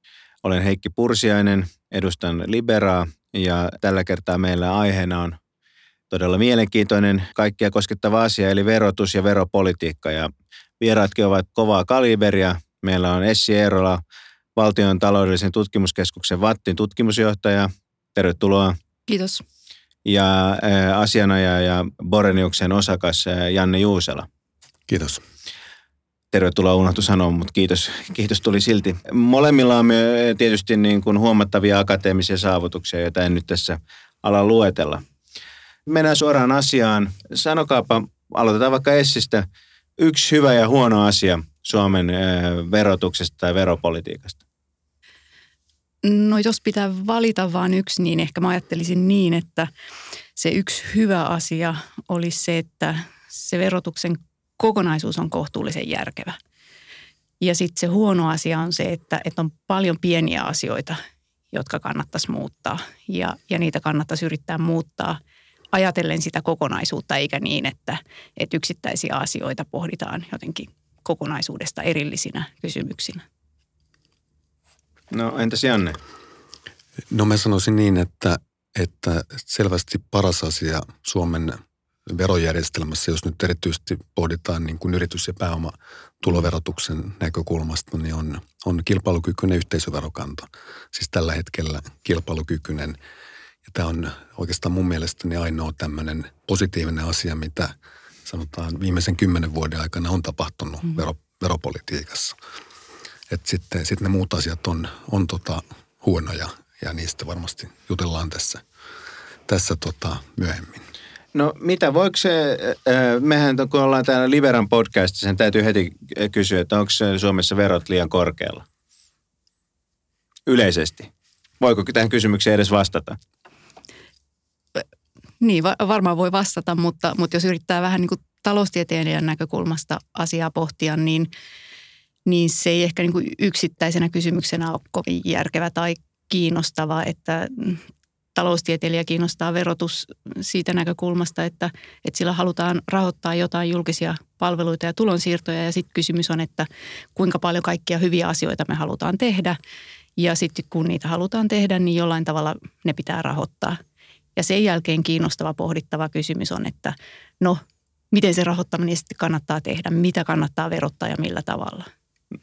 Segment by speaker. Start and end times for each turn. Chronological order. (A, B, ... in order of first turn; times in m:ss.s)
0:00.4-0:05.4 A
0:06.1-0:14.0 A
0:14.6-0:18.8 A
0:19.1-0:19.4 B
0:20.0-0:24.3 A
0:24.9-0:25.2 C
0:26.3-0:35.0 A
0:35.9-0:39.5 A
0:40.0-0:44.4 A
0:46.0-0:49.7 B
0:50.4-0:56.4 B
0:57.4-1:01.0 B
1:01.5-1:05.2 B
1:05.7-1:13.2 B
1:15.1-1:16.0 A
1:17.1-1:33.0 C
1:33.7-1:37.7 C
1:38.3-1:42.4 C
1:43.3-1:48.6 C
1:49.5-1:50.8 C
1:51.3-1:58.6 A
2:00.5-2:03.2 A
2:05.4-2:11.3 B
2:12.3-2:17.8 B
2:18.4-2:29.6 B
2:30.2-2:33.8 B
2:34.4-2:41.9 B